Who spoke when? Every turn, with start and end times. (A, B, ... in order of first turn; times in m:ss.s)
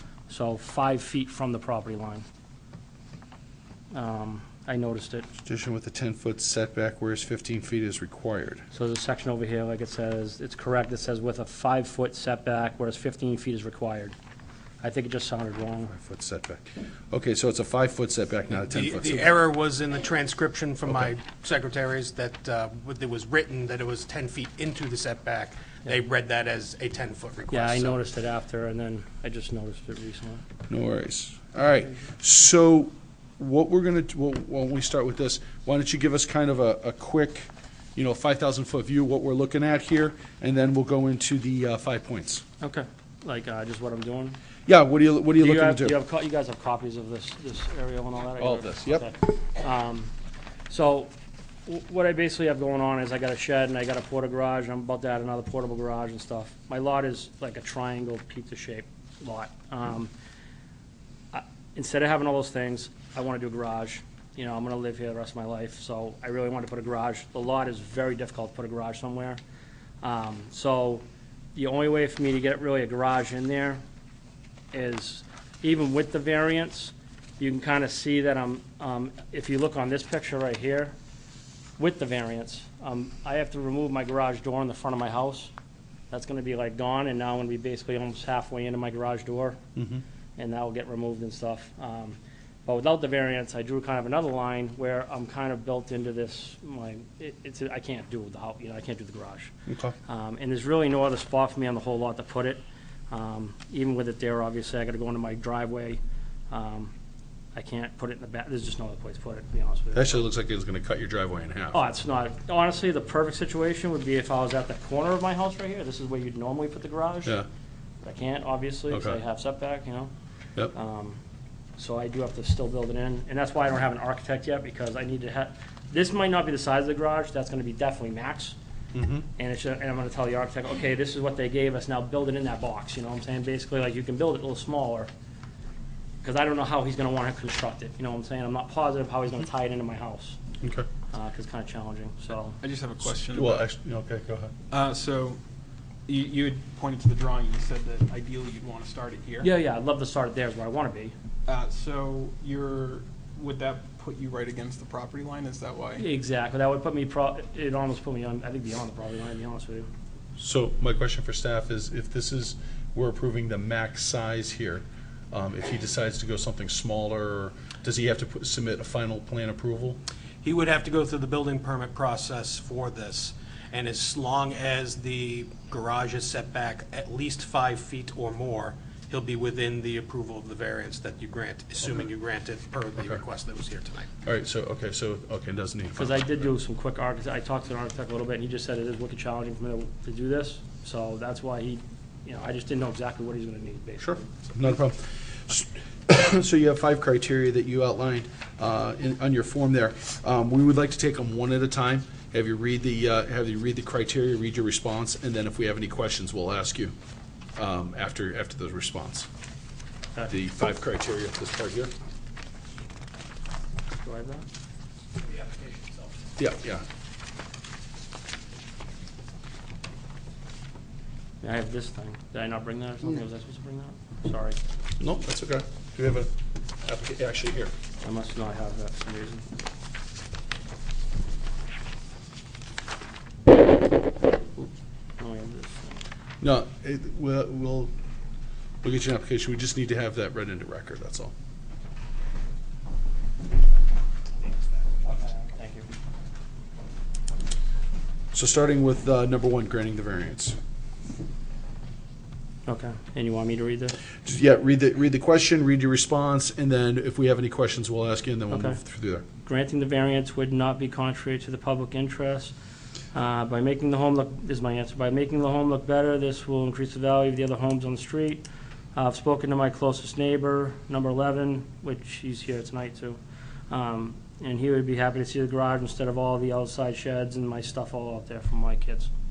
0:00.3-0:02.2 A
0:03.9-0:05.3 A
0:05.4-0:08.6 B
0:08.7-0:14.2 A
0:14.8-0:15.9 A
0:15.9-0:19.3 B
0:18.6-0:28.0 C
0:27.5-0:30.4 A
0:30.7-0:42.4 B
0:42.6-0:44.4 A
0:44.7-0:46.0 B
0:45.4-0:50.1 A
0:48.4-0:49.1 B
0:50.7-0:51.1 A
0:51.7-1:00.1 A
1:01.3-1:09.4 A
1:10.0-1:11.0 A
1:11.6-1:13.8 A
1:14.7-1:20.9 A
1:21.8-1:25.5 A
1:26.1-1:29.6 A
1:29.8-1:30.0 B
1:30.4-1:39.5 A
1:39.7-1:40.0 B
1:40.1-1:46.9 A
1:47.6-1:50.2 A
1:49.9-1:51.8 B
1:51.7-1:57.4 A
1:58.0-2:00.1 A
1:58.9-1:59.2 B
2:00.7-2:01.2 A
2:01.8-2:08.6 A
2:08.9-2:09.3 B
2:09.4-2:15.1 A
2:16.2-2:20.4 A
2:20.6-2:20.9 B
2:21.1-2:22.6 A
2:22.6-2:23.7 D
2:23.3-2:24.5 B
2:24.7-2:25.4 D
2:26.1-2:29.5 D
2:29.4-2:31.1 A
2:31.5-2:36.1 D
2:36.0-2:39.9 A
2:40.4-2:50.0 B
2:50.4-3:04.1 C
3:04.2-3:06.5 B
3:06.0-3:14.3 A
3:14.0-3:26.9 B
3:27.6-3:29.3 B
3:30.3-3:31.9 B
3:33.9-3:34.5 A
3:36.4-3:36.8 B
3:41.4-3:44.6 A
3:45.0-3:46.3 B
3:46.8-3:47.7 B
3:48.0-3:49.5 A
3:55.2-3:56.0 A
3:56.4-3:57.9 B
3:58.8-4:01.3 B
4:05.0-4:05.9 A
4:08.3-4:10.6 B
4:12.7-4:14.0 A
4:14.2-4:19.2 B
4:18.5-4:18.8 A
4:19.4-4:22.5 A
4:23.1-4:33.2 A
4:33.7-4:39.1 A